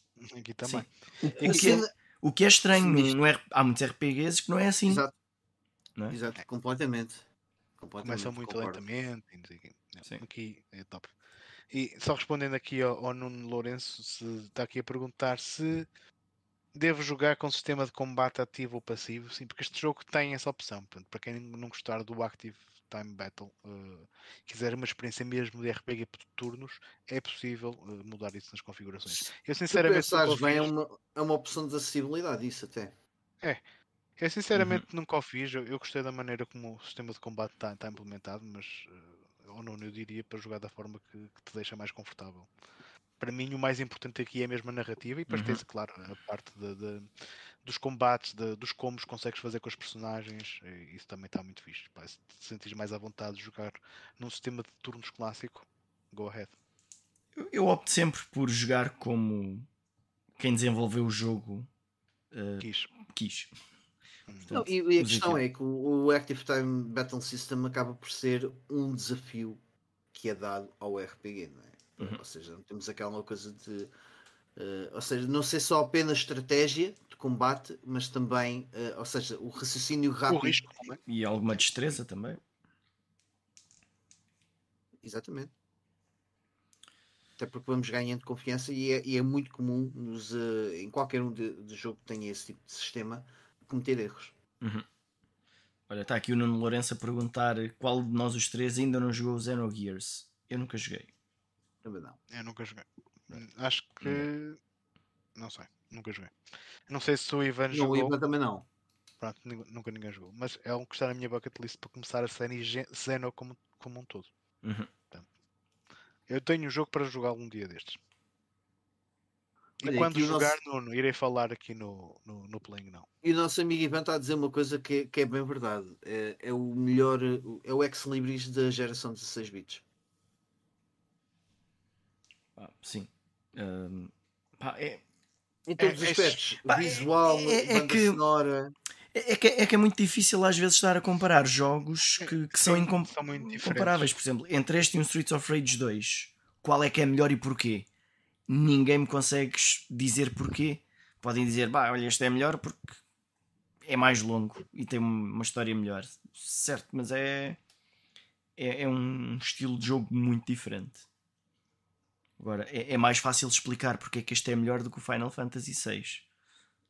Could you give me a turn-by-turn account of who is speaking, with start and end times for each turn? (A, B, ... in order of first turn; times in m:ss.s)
0:00.2-0:01.8 A
0:00.6-0:05.0 B
0:01.4-0:01.9 C
0:02.7-0:03.1 C
0:04.9-0:05.1 C
0:06.1-0:07.3 C
0:07.8-0:08.8 C
0:08.0-0:11.1 A
0:11.7-0:15.9 A
0:16.8-0:30.7 A
0:29.1-0:33.0 C
0:34.2-0:42.5 A
0:34.6-0:34.8 B
0:43.2-0:47.1 A
0:45.3-0:45.6 B
0:47.6-0:56.6 A
0:57.4-0:59.7 B
1:00.4-1:01.7 B
1:02.3-1:03.5 B
1:02.6-1:02.9 A
1:04.3-1:04.6 A
1:04.5-1:05.4 B
1:04.5-1:09.6 C
1:10.1-1:13.9 C
1:14.6-1:20.8 C
1:20.3-1:21.0 A
1:21.1-1:22.4 B
1:25.0-1:25.5 C
1:27.4-1:34.3 C
1:34.6-1:34.9 B
1:35.9-1:41.1 B
1:41.8-1:42.2 C
1:42.3-1:44.6 A
1:45.4-1:46.3 A
1:46.9-1:48.1 A
1:47.7-1:48.7 C
1:49.2-1:54.3 A
1:54.6-1:54.9 B
1:56.3-1:58.0 A
1:59.8-2:03.1 A
1:59.8-2:00.6 C
2:03.2-2:09.8 C
2:12.6-2:15.0 B
2:15.7-2:18.8 C
2:15.8-2:16.4 A
2:16.7-2:18.2 B
2:19.1-2:27.9 B
2:22.2-2:24.1 A
2:28.5-2:33.0 B
2:33.8-2:37.6 B
2:38.6-2:41.1 B
2:42.4-2:46.2 B